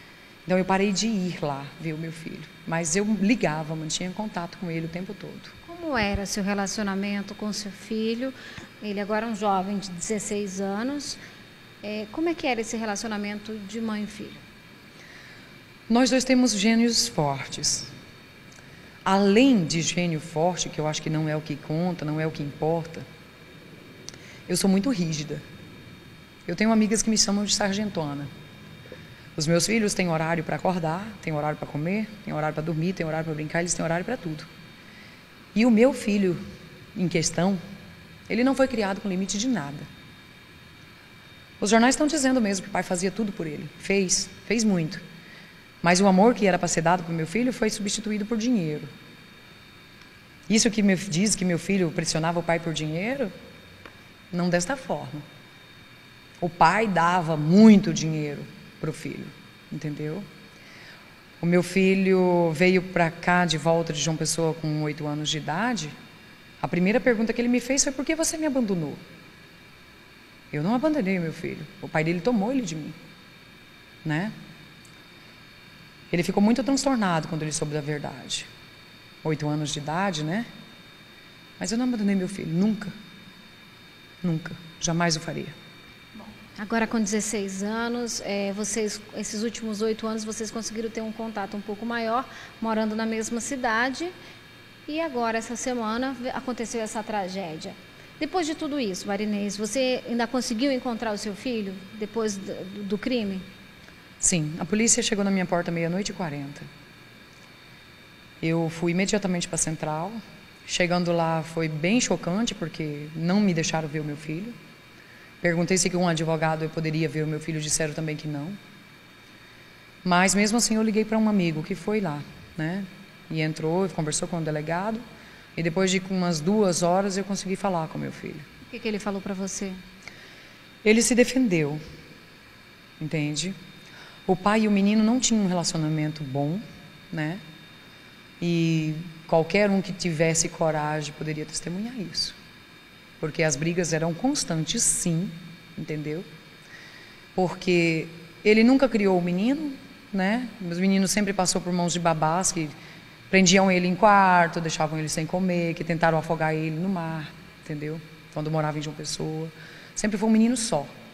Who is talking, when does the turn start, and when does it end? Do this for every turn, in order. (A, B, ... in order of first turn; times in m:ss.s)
0:00.5-0:05.5 A
0:05.6-0:11.2 B
0:11.8-0:14.4 B
0:15.9-0:17.9 A
0:19.0-0:23.1 A
0:24.5-0:25.4 A
0:26.5-0:28.3 A
0:29.4-0:34.5 A
0:35.5-0:36.4 A
0:37.0-0:37.6 A
0:38.3-0:39.9 A
0:41.6-0:45.0 A
0:45.8-0:48.9 A
0:50.5-0:53.3 A
0:54.3-0:55.2 A
0:56.4-1:00.3 A
1:01.4-1:05.9 A
1:06.6-1:09.0 A
1:10.5-1:13.0 A
1:14.0-1:14.3 A
1:16.1-1:18.5 A
1:19.2-1:20.5 A
1:21.6-1:22.9 A
1:24.2-1:25.6 A
1:26.2-1:34.1 B
1:34.9-1:43.4 B
1:44.2-1:46.7 A
1:48.4-1:54.6 A
1:55.4-1:58.6 A
2:00.0-2:05.0 A
2:05.6-2:08.4 A
2:08.7-2:09.8 B
2:10.8-2:11.8 A
2:13.0-2:13.6 A
2:14.3-2:17.4 A
2:18.4-2:22.4 A
2:23.2-2:26.3 A
2:27.4-2:32.7 A
2:33.3-2:40.9 A